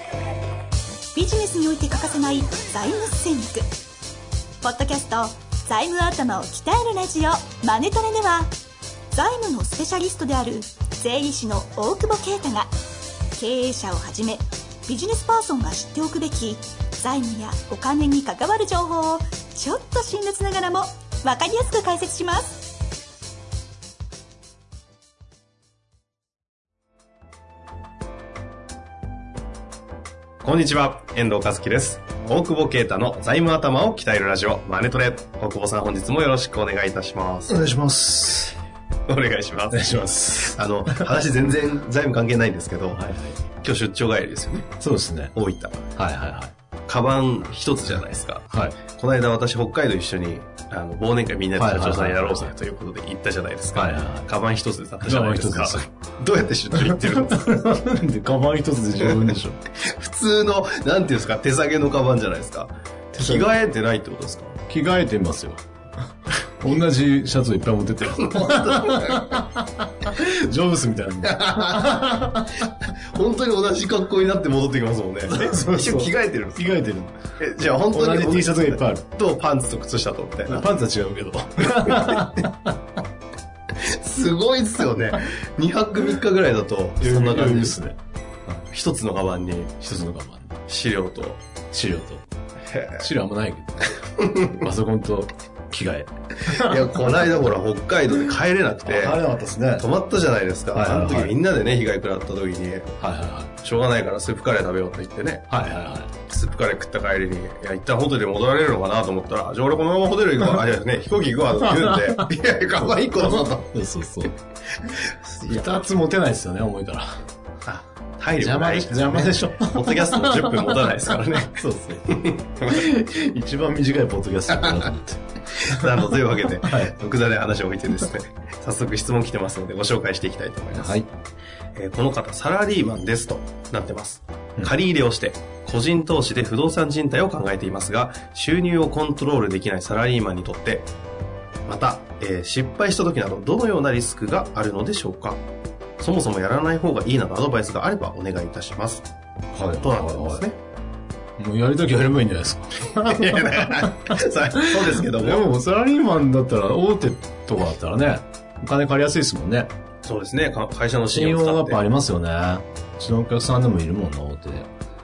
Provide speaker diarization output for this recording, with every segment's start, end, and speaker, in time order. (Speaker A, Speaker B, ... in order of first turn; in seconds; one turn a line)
Speaker A: 1.1-3.7
Speaker A: 4.6-8.5
Speaker A: 9.1-12.7
Speaker A: 13.3-22.7
Speaker B: 30.4-37.7
Speaker C: 37.5-38.5
Speaker B: 39.1-43.0
Speaker C: 39.7-41.1
Speaker C: 42.9-43.4
Speaker B: 43.6-44.7
Speaker C: 44.8-45.3
Speaker B: 45.4-45.9
Speaker C: 46.0-46.5
Speaker B: 46.9-57.7
Speaker C: 48.5-48.8
Speaker C: 51.6-52.5
Speaker C: 53.8-54.3
Speaker C: 55.0-55.9
Speaker C: 56.8-59.6
Speaker B: 59.0-64.6
Speaker C: 63.2-63.5
Speaker C: 64.7-65.6
Speaker C: 66.6-72.7
Speaker B: 68.0-69.4
Speaker B: 71.2-76.8
Speaker C: 75.3-77.2
Speaker B: 77.4-80.7
Speaker C: 77.9-79.1
Speaker C: 80.5-82.8
Speaker B: 81.7-82.3
Speaker B: 83.8-87.8
Speaker C: 87.0-88.0
Speaker B: 88.7-90.1
Speaker C: 89.9-90.6
Speaker B: 90.7-91.4
Speaker C: 91.7-92.3
Speaker B: 92.7-93.1
Speaker C: 93.0-97.3
Speaker B: 94.2-94.5
Speaker B: 96.5-99.2
Speaker C: 98.8-99.9
Speaker B: 99.8-102.9
Speaker C: 100.7-101.3
Speaker C: 103.0-103.6
Speaker B: 103.6-105.5
Speaker C: 105.5-106.1
Speaker B: 106.3-113.7
Speaker C: 111.6-112.3
Speaker C: 112.9-114.3
Speaker B: 115.1-115.9
Speaker C: 115.5-117.2
Speaker B: 117.7-122.8
Speaker C: 118.4-122.0
Speaker C: 122.6-127.0
Speaker B: 124.6-124.9
Speaker B: 125.6-131.0
Speaker C: 130.7-131.1
Speaker B: 131.8-140.9
Speaker B: 141.7-145.4
Speaker B: 146.0-149.1
Speaker C: 149.5-150.5
Speaker B: 149.8-150.6
Speaker C: 151.4-159.7
Speaker B: 152.9-155.5
Speaker B: 160.1-161.8
Speaker C: 161.1-164.7